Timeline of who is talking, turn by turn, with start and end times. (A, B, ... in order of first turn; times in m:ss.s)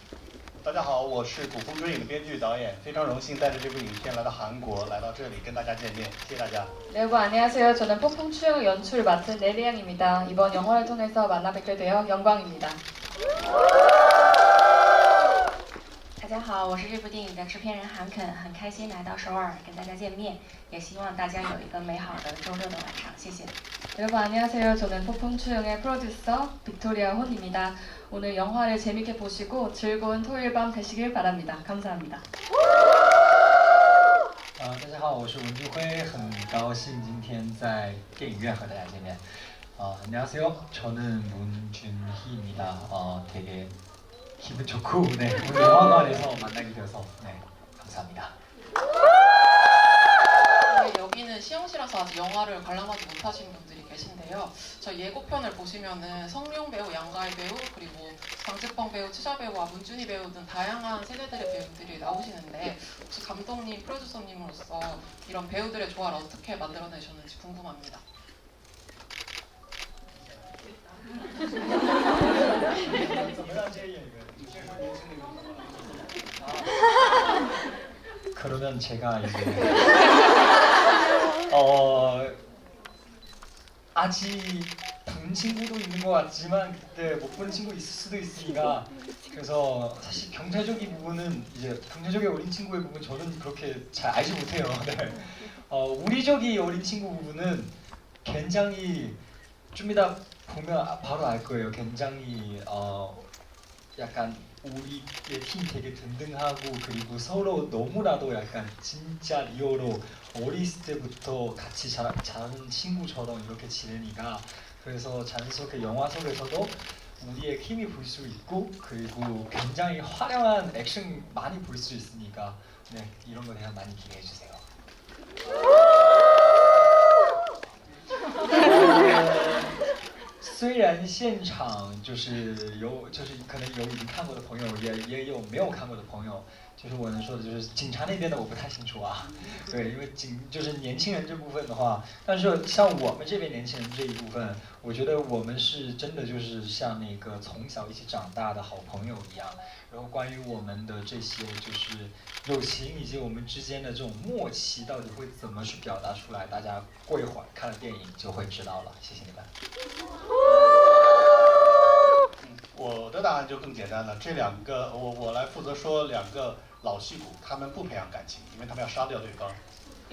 0:00.6-0:06.7 A
0:06.9-0:12.8 B
0:16.2-0:23.5 C
0:23.9-0:32.2 B
0:34.6-0:43.7 D
0:44.4-0:48.3 D
0:50.6-1:08.0 E
1:12.3-1:14.7 D
1:16.4-1:16.7 D
1:18.3-1:19.8 D
1:21.5-1:22.4 D
1:23.9-1:37.7 D
1:38.2-1:39.2 D
1:39.7-1:43.3 D
1:44.0-2:04.6 D
2:08.5-2:09.8 D
2:10.4-2:39.5 D
2:42.4-2:49.6 A